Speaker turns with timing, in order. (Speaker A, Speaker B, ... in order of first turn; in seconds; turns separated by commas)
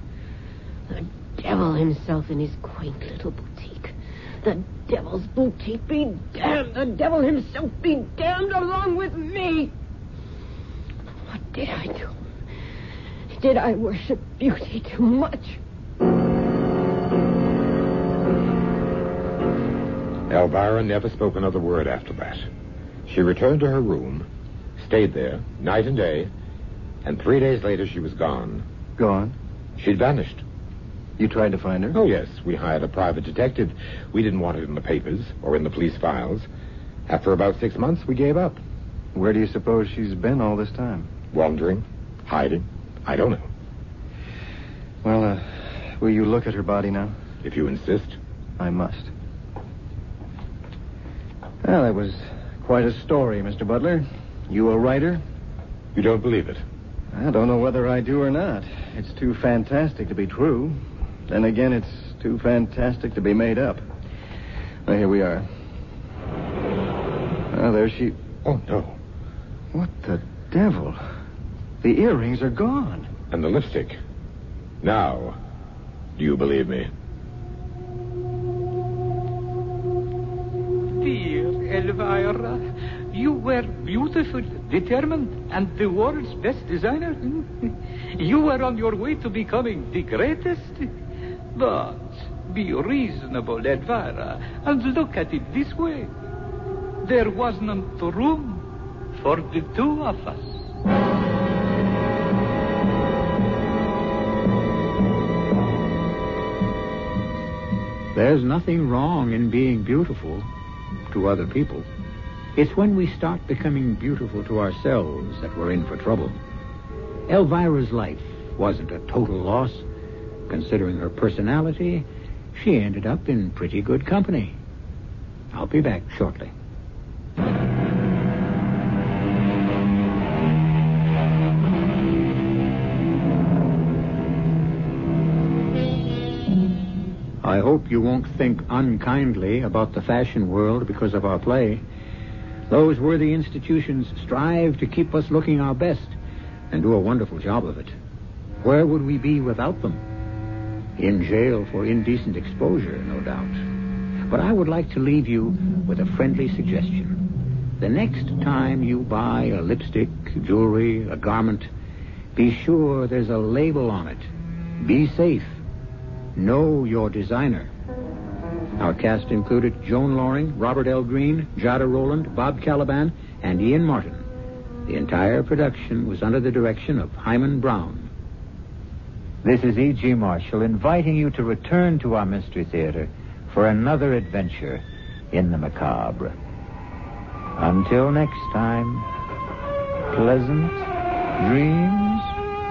Speaker A: 0.9-9.7, Speaker A: 11.2-12.2, Speaker A: 13.3-15.6, Speaker B: 20.3-22.5, Speaker B: 23.1-26.3, Speaker B: 27.0-28.6, Speaker C: 29.0-29.3, Speaker B: 29.8-30.4, Speaker C: 31.2-32.0, Speaker B: 31.9-36.5, Speaker B: 37.1-38.6, Speaker C: 39.1-41.1, Speaker B: 41.3-43.5, Speaker C: 45.0-47.1, Speaker B: 47.4-48.2, Speaker C: 48.6-49.1, Speaker C: 51.6-55.2, Speaker B: 55.9-56.6, Speaker C: 57.1-60.8, Speaker C: 61.3-63.8, Speaker C: 64.8-65.5, Speaker C: 67.5-68.2, Speaker B: 68.4-69.0, Speaker C: 69.7-71.0, Speaker C: 71.8-73.1, Speaker B: 73.3-74.0, Speaker B: 74.8-75.4, Speaker B: 76.2-76.9, Speaker D: 81.0-90.9, Speaker D: 91.5-96.1, Speaker D: 97.0-100.5, Speaker E: 108.1-110.5, Speaker E: 111.1-111.9, Speaker E: 112.5-116.4, Speaker E: 117.3-119.8, Speaker E: 120.5-124.6, Speaker E: 125.5-126.5, Speaker E: 137.4-141.8, Speaker E: 142.7-146.2, Speaker E: 146.7-147.9, Speaker E: 148.6-150.0, Speaker E: 151.0-153.6, Speaker E: 154.3-157.2, Speaker E: 157.8-161.7, Speaker E: 162.3-164.3, Speaker E: 164.8-165.6, Speaker E: 166.3-167.7, Speaker E: 168.8-174.2, Speaker E: 174.9-178.1, Speaker E: 179.4-186.3, Speaker E: 187.6-189.1, Speaker E: 190.1-190.9, Speaker E: 191.4-192.3